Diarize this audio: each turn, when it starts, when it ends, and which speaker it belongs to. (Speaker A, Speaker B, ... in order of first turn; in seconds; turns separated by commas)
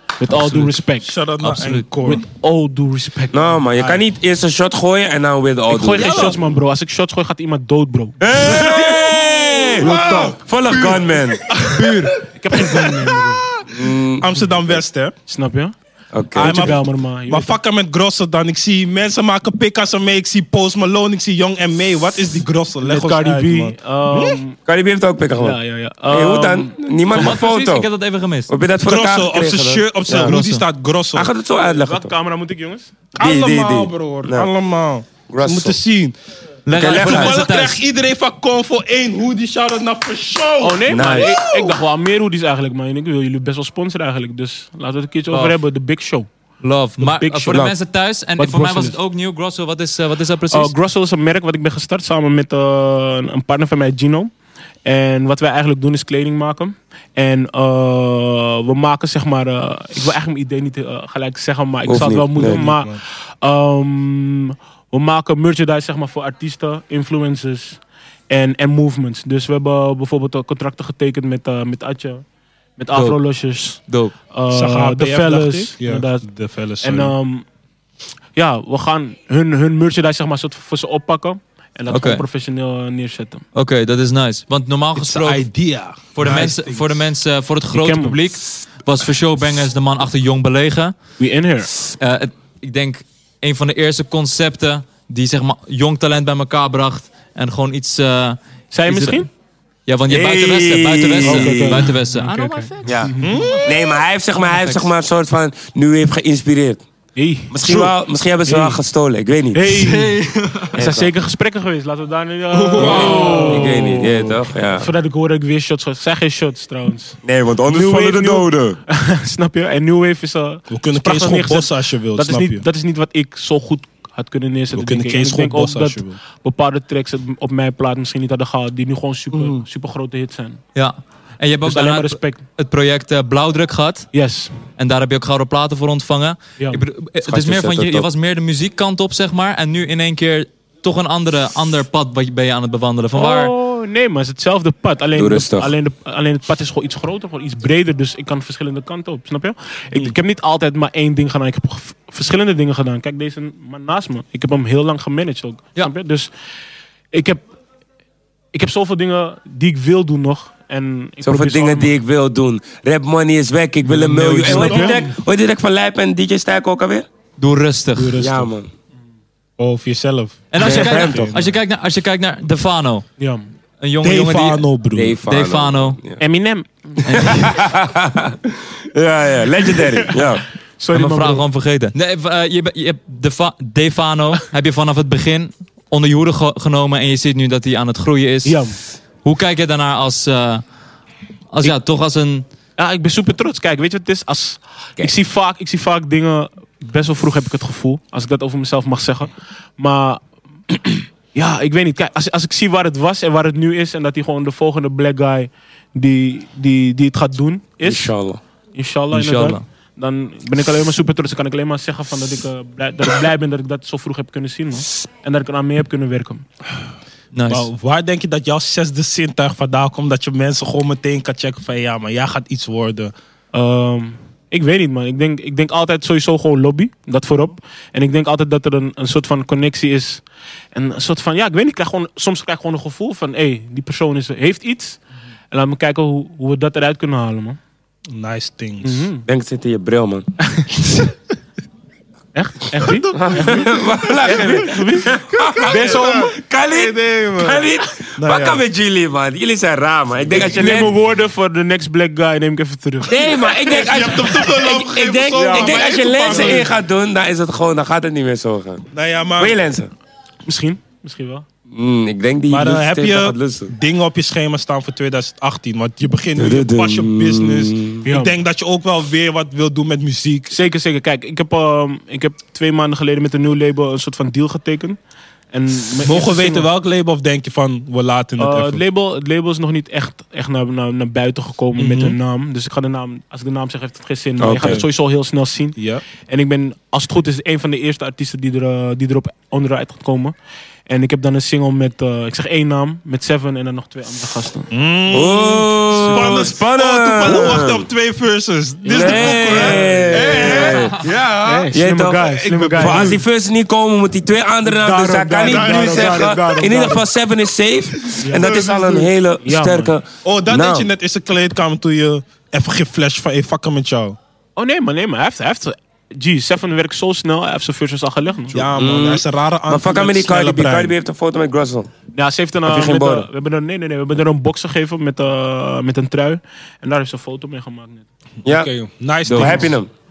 Speaker A: 0.2-1.1, Speaker B: 1.0-2.2, Speaker C: 1.4-1.9, Speaker A: 2.0-4.0, Speaker D: 3.3-6.4, Speaker A: 5.7-8.9, Speaker B: 6.0-6.3, Speaker D: 8.2-11.4, Speaker B: 9.8-13.1, Speaker A: 9.8-10.4, Speaker A: 11.7-13.4, Speaker D: 13.7-14.8, Speaker B: 14.2-15.1, Speaker A: 15.3-15.7, Speaker D: 16.1-16.8, Speaker B: 16.4-24.4, Speaker A: 16.4-17.6, Speaker A: 22.8-24.6, Speaker D: 24.6-25.6, Speaker A: 25.3-26.8, Speaker D: 26.1-27.9, Speaker C: 27.1-28.5, Speaker D: 28.5-30.4, Speaker B: 28.8-31.3, Speaker C: 30.2-30.6, Speaker D: 31.1-32.1, Speaker A: 31.6-32.9, Speaker B: 33.1-36.1, Speaker D: 33.2-34.5, Speaker D: 35.3-35.8, Speaker C: 36.6-37.8, Speaker D: 36.7-37.4, Speaker B: 36.7-41.7, Speaker A: 40.6-46.3, Speaker D: 40.9-41.4, Speaker C: 45.3-45.6, Speaker C: 46.6-50.7, Speaker A: 47.0-47.6, Speaker A: 48.4-49.0, Speaker A: 50.5-54.3, Speaker A: 54.8-72.2, Speaker D: 61.9-62.6, Speaker B: 62.4-63.0, Speaker A: 72.8-73.8, Speaker C: 72.9-73.2, Speaker C: 73.7-74.1, Speaker A: 74.3-76.3, Speaker B: 74.5-77.1, Speaker A: 76.8-77.5, Speaker A: 78.3-83.4, Speaker C: 81.9-82.2, Speaker C: 83.5-85.4, Speaker B: 85.0-86.9, Speaker C: 86.1-90.9, Speaker A: 87.7-88.2, Speaker A: 91.2-91.7, Speaker C: 92.0-99.2, Speaker A: 98.7-99.3, Speaker C: 99.9-103.7, Speaker D: 100.1-101.9, Speaker A: 101.2-103.6, Speaker D: 102.8-106.8, Speaker B: 103.2-103.6, Speaker C: 104.3-104.9, Speaker A: 107.1-107.9, Speaker D: 107.5-109.6, Speaker A: 108.4-108.8, Speaker A: 109.5-130.6, Speaker C: 109.7-110.8, Speaker D: 110.7-111.1, Speaker B: 112.5-113.7, Speaker D: 112.8-114.9, Speaker D: 117.2-118.8, Speaker B: 120.7-122.6, Speaker B: 124.7-126.2, Speaker C: 130.8-134.1, Speaker A: 131.6-132.4, Speaker A: 134.1-134.5, Speaker C: 134.8-143.5, Speaker D: 137.2-138.1, Speaker A: 143.1-156.3, Speaker D: 145.1-145.7, Speaker A: 157.1-157.4, Speaker A: 158.5-161.9, Speaker D: 161.2-167.1, Speaker A: 163.8-165.1, Speaker B: 164.4-165.0, Speaker C: 167.4-168.2, Speaker D: 168.2-168.7, Speaker B: 169.6-171.5, Speaker C: 170.5-173.1, Speaker D: 170.6-171.2, Speaker A: 170.6-171.2, Speaker A: 173.2-173.5, Speaker C: 173.8-174.6, Speaker B: 174.0-175.2, Speaker D: 174.9-176.2, Speaker C: 175.2-176.0, Speaker A: 176.2-177.3, Speaker D: 177.0-178.3, Speaker C: 177.1-177.6, Speaker D: 178.9-180.4, Speaker A: 179.7-180.2, Speaker A: 180.8-181.4, Speaker C: 180.9-188.7, Speaker A: 188.4-188.8, Speaker C: 189.2-190.6, Speaker C: 191.5-192.4, Speaker A: 192.8-208.1, Speaker D: 207.8-208.4, Speaker A: 208.7-216.4, Speaker C: 209.1-209.6, Speaker C: 217.3-217.7, Speaker B: 217.5-223.1, Speaker A: 223.5-237.6, Speaker B: 238.1-239.0, Speaker A: 238.8-239.2, Speaker D: 239.2-240.2, Speaker A: 240.5-240.8, Speaker A: 242.3-246.3, Speaker B: 242.9-243.8, Speaker D: 243.1-250.9, Speaker B: 245.6-248.6, Speaker A: 250.3-253.5, Speaker D: 253.1-259.9, Speaker B: 253.6-256.7, Speaker A: 255.3-256.7, Speaker B: 258.9-259.6, Speaker A: 260.4-261.4, Speaker D: 261.7-263.7, Speaker B: 262.5-270.5, Speaker D: 266.4-268.0, Speaker A: 268.0-268.4, Speaker A: 270.5-275.0, Speaker A: 275.5-276.7, Speaker B: 276.0-278.8, Speaker A: 278.4-290.3, Speaker B: 281.8-282.1, Speaker D: 284.4-284.8, Speaker B: 284.5-284.8, Speaker B: 285.8-286.0, Speaker A: 290.9-294.7, Speaker B: 294.7-301.7, Speaker D: 295.1-297.9, Speaker A: 295.9-296.5, Speaker D: 298.8-301.0, Speaker A: 298.9-303.2, Speaker D: 301.7-310.9, Speaker B: 302.4-303.2, Speaker A: 304.6-307.1, Speaker B: 305.4-306.4, Speaker A: 308.2-310.0, Speaker B: 308.4-308.8, Speaker B: 310.2-314.2, Speaker A: 314.6-318.7, Speaker B: 318.5-320.9, Speaker D: 318.8-321.9, Speaker A: 322.1-328.1, Speaker D: 322.6-323.3, Speaker D: 328.4-328.7, Speaker B: 328.5-329.8, Speaker D: 329.2-329.9